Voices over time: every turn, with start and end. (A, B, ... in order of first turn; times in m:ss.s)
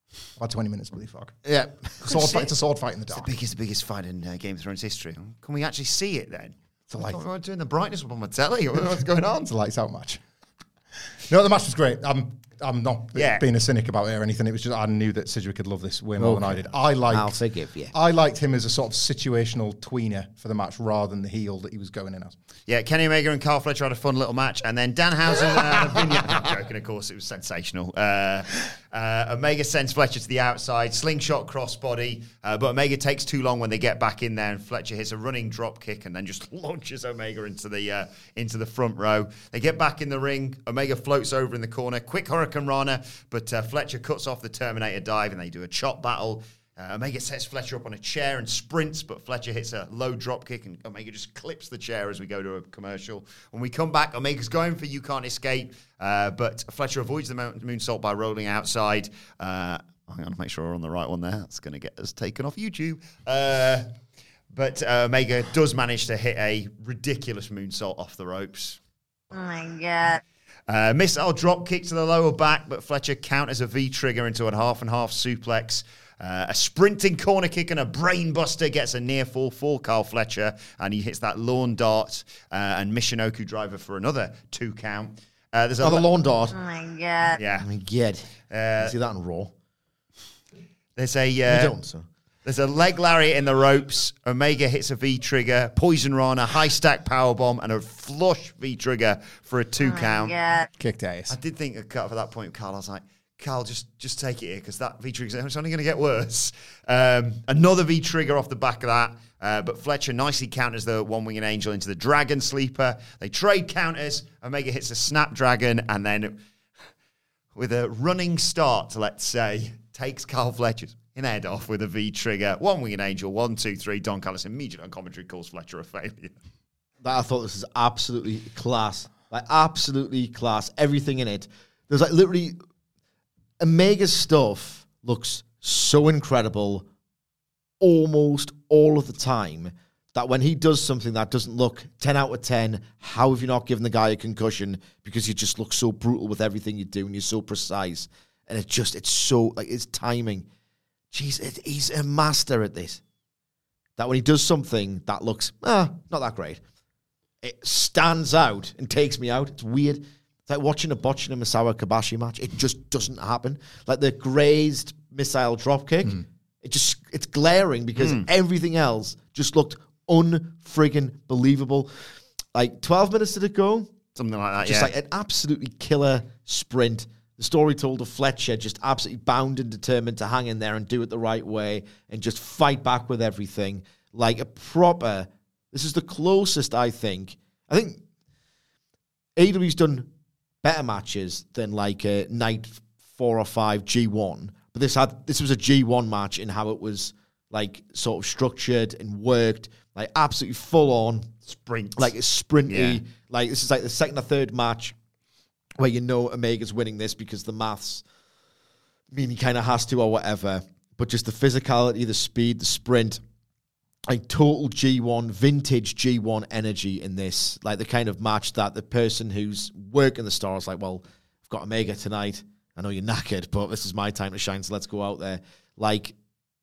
0:00.4-0:01.4 A
0:01.4-0:02.0 B
0:02.0-0:03.3 A
0:02.0-0:02.5 C
0:03.1-0:09.5 C
0:06.9-0:07.2 A
0:09.4-0:10.2 A
0:11.3-0:17.4 A
0:13.1-0:13.4 C
0:16.2-0:17.9 B
0:17.9-0:22.4 A
0:22.7-1:03.9 C
0:25.7-0:26.4 A
1:04.5-1:08.8 C
1:09.3-1:10.2 D
1:10.7-1:26.1 C
1:25.8-1:26.5 B
1:26.5-1:27.4 D
1:27.4-1:27.7 C
1:27.6-1:28.3 B
1:28.5-1:29.0 C
1:28.8-1:29.5 B
1:31.0-1:31.7 C
1:31.5-1:32.0 B
1:32.4-1:40.3 C
1:39.8-1:40.7 D
1:40.8-1:41.4 A
1:41.3-1:56.4 C
1:57.5-2:06.3 C
2:07.0-2:12.6 B
2:13.6-2:16.8 B
2:17.8-2:30.4 B
2:31.1-2:33.0 B
2:34.0-2:36.6 B
2:37.4-2:51.9 B
2:48.0-2:48.2 C
2:52.5-2:53.9 B
2:54.2-2:54.9 C
2:54.6-3:08.0 B
3:09.4-3:10.1 B
3:10.6-3:21.3 B
3:21.5-3:22.1 C
3:22.0-3:24.9 B
3:22.7-3:23.0 C
3:25.8-3:28.0 B
3:29.1-3:33.2 B
3:34.1-3:46.1 B